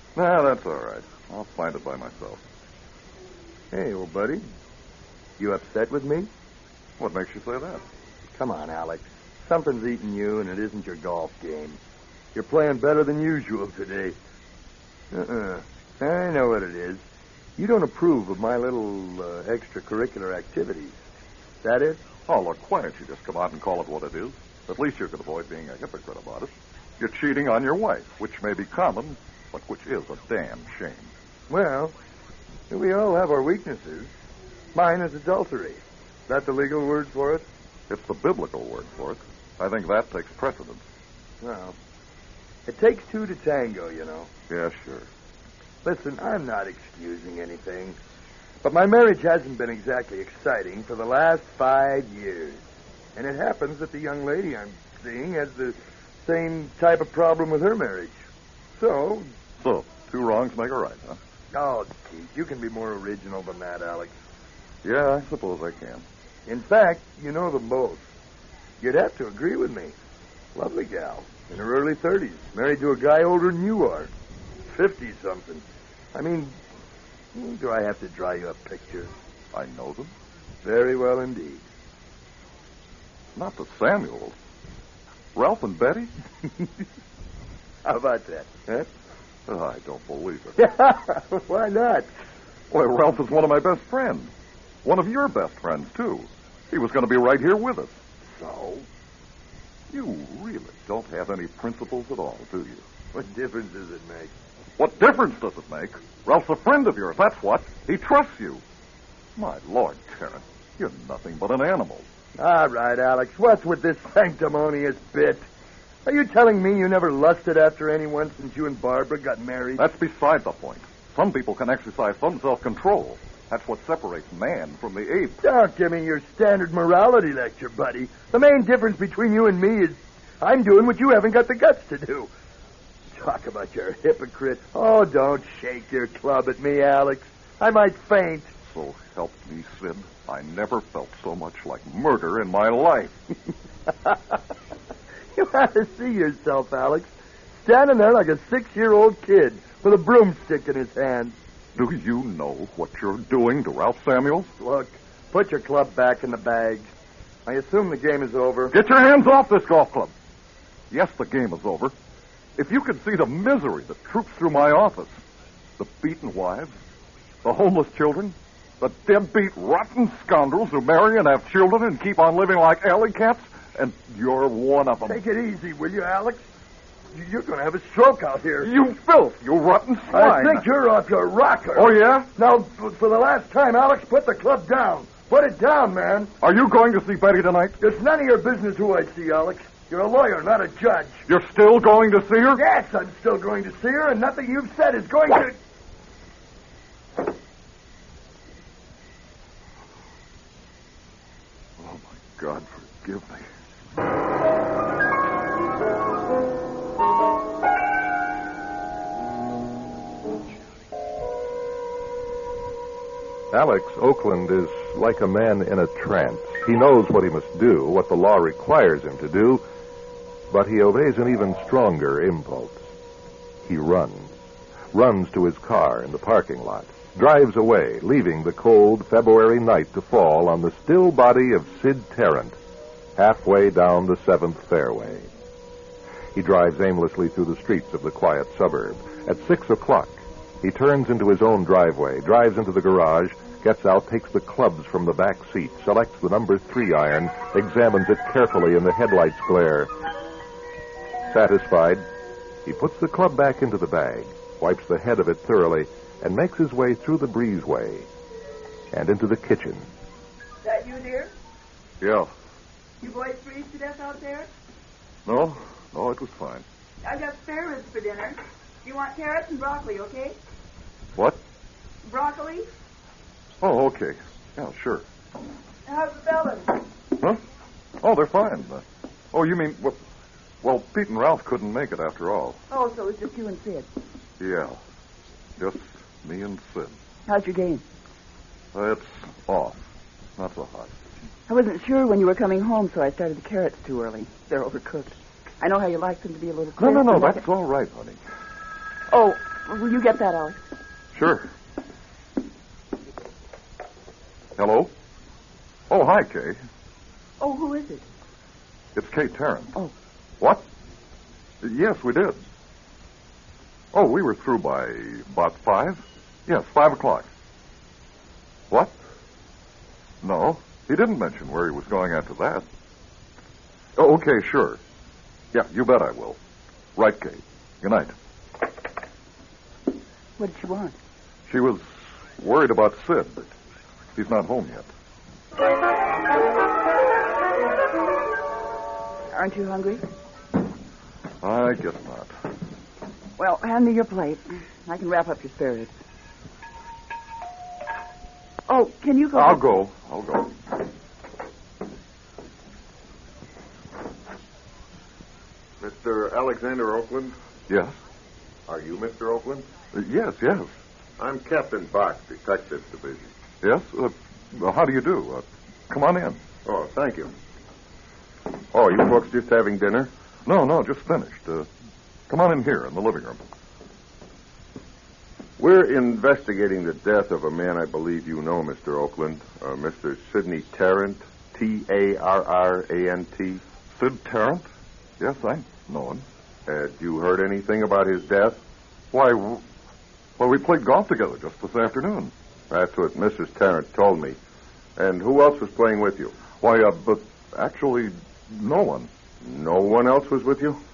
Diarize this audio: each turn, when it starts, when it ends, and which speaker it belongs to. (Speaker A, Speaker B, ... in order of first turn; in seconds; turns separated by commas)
Speaker A: 0.1-2.4, Speaker B: 3.7-4.4, Speaker B: 5.4-6.3, Speaker A: 7.0-7.8, Speaker B: 8.3-11.8, Speaker B: 12.3-14.2, Speaker B: 15.1-17.0, Speaker B: 17.6-20.9, Speaker B: 21.6-22.0, Speaker A: 22.3-31.1, Speaker B: 31.5-31.9, Speaker B: 32.7-34.1, Speaker B: 34.7-37.5, Speaker A: 37.9-40.8, Speaker B: 41.4-41.8, Speaker B: 42.7-44.3, Speaker C: 44.5-45.1, Speaker B: 45.8-48.0, Speaker B: 48.6-52.6, Speaker B: 53.1-58.1, Speaker B: 58.8-59.3, Speaker A: 59.6-61.2, Speaker B: 61.5-64.1, Speaker A: 64.8-66.0, Speaker B: 66.5-68.0, Speaker B: 68.8-69.9, Speaker B: 70.5-74.1, Speaker B: 74.7-76.5, Speaker B: 77.3-79.1, Speaker A: 79.5-80.1, Speaker B: 80.6-81.6, Speaker A: 83.3-84.3, Speaker A: 85.3-86.1, Speaker B: 87.8-88.9, Speaker A: 89.5-90.6, Speaker B: 90.6-92.1, Speaker A: 92.7-94.3, Speaker A: 94.8-97.9, Speaker B: 98.3-98.8, Speaker A: 99.9-102.8, Speaker B: 103.1-104.3, Speaker A: 104.8-108.6, Speaker A: 109.4-112.0, Speaker B: 112.3-115.4, Speaker B: 116.0-119.8, Speaker A: 119.8-125.4, Speaker B: 125.4-132.3, Speaker B: 133.1-138.5, Speaker A: 138.6-143.2, Speaker B: 145.3-151.3, Speaker A: 151.8-154.5, Speaker B: 154.6-156.9, Speaker B: 157.4-158.7, Speaker A: 158.7-160.1, Speaker A: 160.9-161.9, Speaker A: 162.6-165.2, Speaker A: 165.8-166.7, Speaker A: 167.4-175.2, Speaker B: 175.1-176.4, Speaker B: 177.1-178.7, Speaker A: 178.6-180.7, Speaker B: 180.1-186.3, Speaker A: 181.7-182.3, Speaker A: 186.4-187.8, Speaker B: 187.8-191.2, Speaker A: 191.3-192.6, Speaker B: 192.5-195.6, Speaker A: 201.8-203.4, Speaker D: 213.5-219.6, Speaker D: 220.5-222.8, Speaker D: 223.6-224.3, Speaker D: 224.9-232.6, Speaker D: 233.2-235.3, Speaker D: 236.3-249.9, Speaker D: 251.3-252.0, Speaker D: 252.7-258.1, Speaker D: 258.9-259.9, Speaker E: 260.6-261.3, Speaker A: 262.0-262.3, Speaker E: 263.0-264.5, Speaker A: 265.2-266.6, Speaker E: 267.0-270.4, Speaker E: 272.0-272.6, Speaker A: 273.6-275.0, Speaker E: 275.9-276.9, Speaker A: 278.0-280.0, Speaker A: 280.6-282.6, Speaker E: 282.7-283.9, Speaker A: 284.4-284.8, Speaker A: 285.6-286.9, Speaker E: 287.3-287.8, Speaker A: 288.7-289.8, Speaker A: 290.4-290.9, Speaker E: 291.5-297.4, Speaker A: 296.8-298.2, Speaker E: 299.1-300.6, Speaker A: 301.1-301.5, Speaker A: 304.6-304.9, Speaker A: 305.9-306.6, Speaker E: 307.4-308.0, Speaker A: 308.9-309.7, Speaker A: 311.6-312.4, Speaker A: 313.9-317.3, Speaker A: 320.2-322.6, Speaker A: 324.0-324.8, Speaker A: 325.5-326.4, Speaker A: 327.0-328.1, Speaker E: 330.4-330.9, Speaker A: 331.5-331.8, Speaker A: 332.4-333.5, Speaker A: 334.1-334.9, Speaker E: 339.3-340.0, Speaker A: 341.4-342.3, Speaker E: 343.4-345.9, Speaker E: 348.7-349.8, Speaker A: 349.3-350.6, Speaker C: 355.8-357.3, Speaker A: 357.7-357.9, Speaker C: 358.7-359.7, Speaker A: 359.9-360.7, Speaker C: 361.2-363.3, Speaker A: 363.6-366.4, Speaker C: 366.6-367.3, Speaker C: 368.7-370.1, Speaker A: 370.4-371.7, Speaker A: 372.3-373.4, Speaker C: 375.6-383.6, Speaker A: 383.9-384.6, Speaker A: 385.2-386.2, Speaker C: 386.7-388.6, Speaker A: 389.1-389.6, Speaker A: 390.4-392.3, Speaker C: 392.7-394.4, Speaker C: 395.0-396.3, Speaker A: 396.6-399.1, Speaker C: 399.4-400.8